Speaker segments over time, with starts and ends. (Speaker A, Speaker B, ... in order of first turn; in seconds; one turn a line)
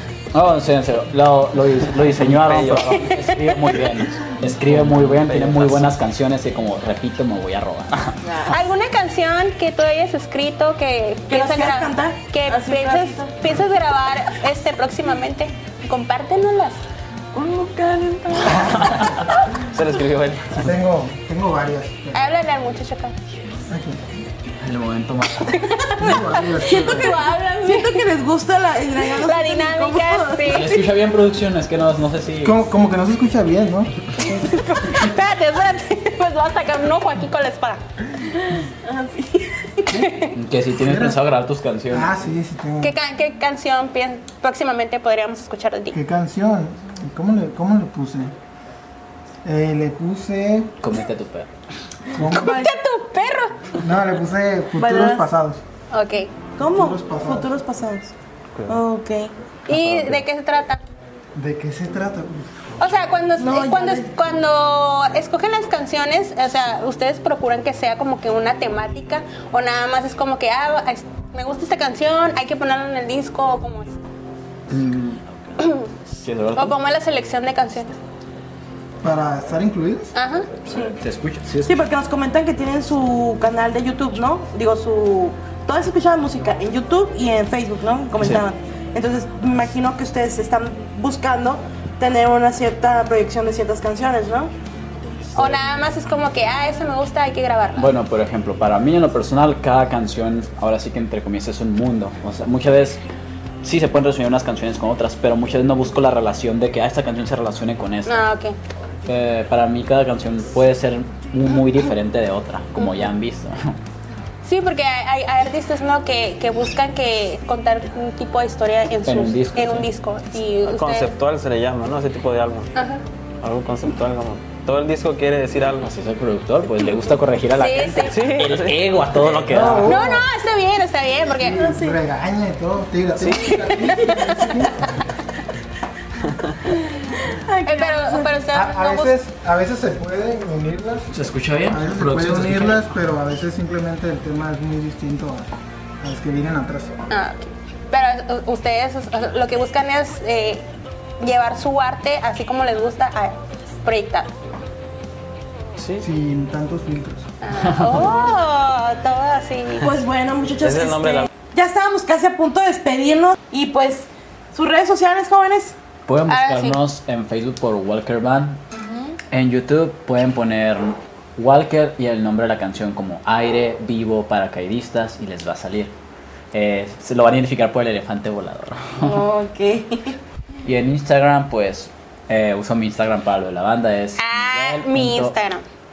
Speaker A: 0.3-8.2
Speaker B: 2.0-3.0
Speaker C: 3.0-3.8
Speaker B: 4.5-5.9
Speaker D: 8.2-8.6
Speaker C: 8.5-16.8
Speaker D: 11.3-13.3
Speaker D: 17.3-18.8
Speaker A: 18.4-19.2
Speaker E: 18.7-19.4
Speaker B: 19.6-20.7
Speaker E: 20.5-22.2
Speaker C: 22.1-23.2
Speaker E: 23.7-24.1
Speaker A: 24.6-25.7
Speaker C: 25.5-28.1
Speaker E: 26.0-27.1
Speaker D: 26.5-30.8
Speaker C: 29.1-30.8
Speaker A: 30.5-32.6
Speaker E: 32.4-35.1
Speaker C: 34.2-37.8
Speaker D: 38.5-40.0
Speaker C: 39.9-40.4
Speaker A: 40.3-42.2
Speaker E: 40.8-41.2
Speaker E: 41.9-43.0
Speaker C: 42.8-46.0
Speaker E: 45.9-48.3
Speaker E: 49.4-50.7
Speaker A: 50.8-51.5
Speaker E: 52.1-52.6
Speaker C: 52.3-53.7
Speaker D: 52.3-52.7
Speaker E: 53.8-55.6
Speaker D: 54.8-55.3
Speaker C: 55.9-56.3
Speaker D: 56.6-58.1
Speaker E: 56.7-57.6
Speaker D: 58.7-59.3
Speaker C: 59.7-60.8
Speaker A: 59.7-60.2
Speaker E: 61.4-62.5
Speaker C: 62.8-73.9
Speaker D: 63.4-64.1
Speaker A: 74.7-75.2
Speaker C: 75.6-75.9
Speaker A: 76.2-76.8
Speaker C: 76.5-78.0
Speaker E: 79.0-80.1
Speaker C: 80.2-80.5
Speaker A: 80.6-81.8
Speaker D: 80.7-81.0
Speaker D: 81.7-94.5
Speaker A: 95.3-95.6
Speaker C: 95.3-97.9
Speaker A: 97.8-103.0
Speaker A: 103.6-108.3
Speaker C: 108.1-108.6
Speaker A: 109.1-113.8
Speaker C: 112.8-113.1
Speaker C: 114.5-121.1
Speaker A: 119.0-119.9
Speaker B: 120.7-122.7
Speaker C: 122.8-123.0
Speaker B: 123.4-125.9
Speaker A: 125.8-130.0
Speaker C: 127.6-128.2
Speaker B: 128.1-129.8
Speaker E: 129.5-130.3
Speaker C: 129.8-131.6
Speaker E: 131.4-135.1
Speaker D: 131.5-132.0
Speaker C: 133.4-134.7
Speaker D: 137.3-138.5
Speaker C: 137.6-139.2
Speaker E: 138.5-141.1
Speaker A: 141.1-142.9
Speaker E: 141.7-145.5
Speaker E: 146.0-147.0
Speaker C: 147.1-150.6
Speaker C: 151.2-154.3
Speaker B: 155.8-156.1
Speaker E: 156.0-157.3
Speaker C: 157.4-159.9
Speaker A: 157.5-158.2
Speaker D: 159.8-165.8
Speaker B: 160.6-161.3
Speaker A: 166.1-168.6
Speaker C: 166.3-166.8
Speaker D: 168.7-169.2
Speaker A: 169.3-175.9
Speaker A: 176.5-179.2
Speaker D: 179.0-180.2
Speaker A: 180.6-185.3
Speaker C: 184.2-185.6